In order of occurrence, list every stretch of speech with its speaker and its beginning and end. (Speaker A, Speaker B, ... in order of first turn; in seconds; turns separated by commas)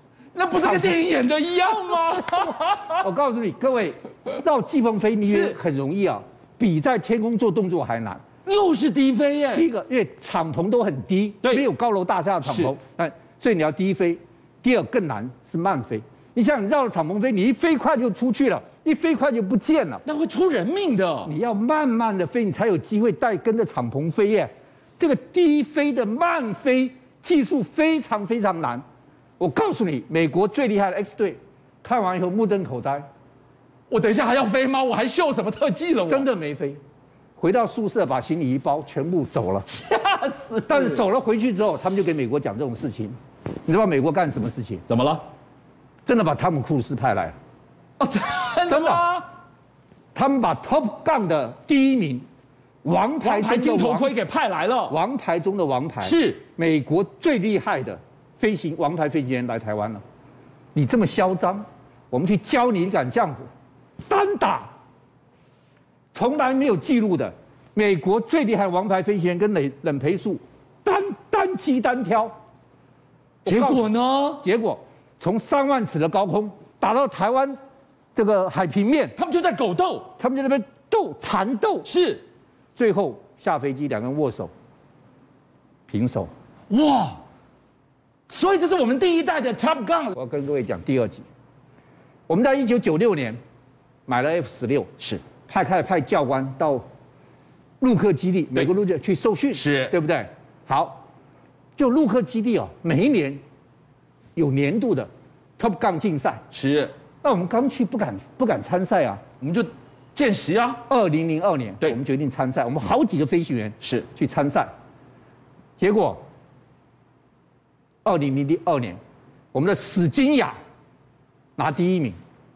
Speaker A: 0.3-3.1, Speaker B: 0.6-1.0, Speaker B: 3.0-8.2, Speaker A: 5.2-5.6, Speaker A: 8.5-9.7, Speaker B: 9.5-20.0, Speaker A: 12.4-12.7, Speaker A: 20.0-21.3, Speaker B: 21.2-28.8, Speaker B: 29.4-33.1, Speaker A: 33.9-36.3, Speaker B: 36.1-36.8, Speaker B: 37.4-39.7, Speaker A: 39.7-41.0, Speaker B: 40.7-44.8, Speaker A: 44.9-45.2, Speaker B: 46.1-47.4, Speaker A: 48.0-49.2, Speaker B: 48.7-49.1, Speaker B: 50.1-52.2, Speaker B: 52.8-54.1, Speaker A: 53.2-55.0, Speaker B: 54.9-60.0, Speaker A: 56.0-56.5, Speaker B: 60.8-63.5, Speaker B: 64.1-64.7, Speaker B: 66.1-72.4, Speaker A: 73.5-74.5, Speaker B: 73.5-77.6, Speaker B: 78.1-79.1, Speaker A: 79.2-80.1, Speaker B: 80.2-81.9, Speaker A: 81.8-82.2, Speaker B: 82.8-84.5, Speaker B: 85.9-86.3, Speaker A: 86.7-87.2, Speaker A: 88.3-90.1, Speaker B: 90.1-91.2, Speaker B: 92.3-93.4, Speaker B: 94.1-96.8, Speaker A: 95.0-95.2, Speaker B: 97.8-101.0, Speaker A: 99.5-99.9, Speaker B: 101.8-103.4, Speaker B: 104.4-106.4, Speaker A: 106.5-106.9, Speaker B: 107.2-109.2, Speaker A: 109.4-110.8, Speaker B: 110.9-114.7, Speaker B: 115.8-116.2, Speaker B: 118.0-119.0, Speaker B: 119.5-120.6, Speaker B: 121.6-122.2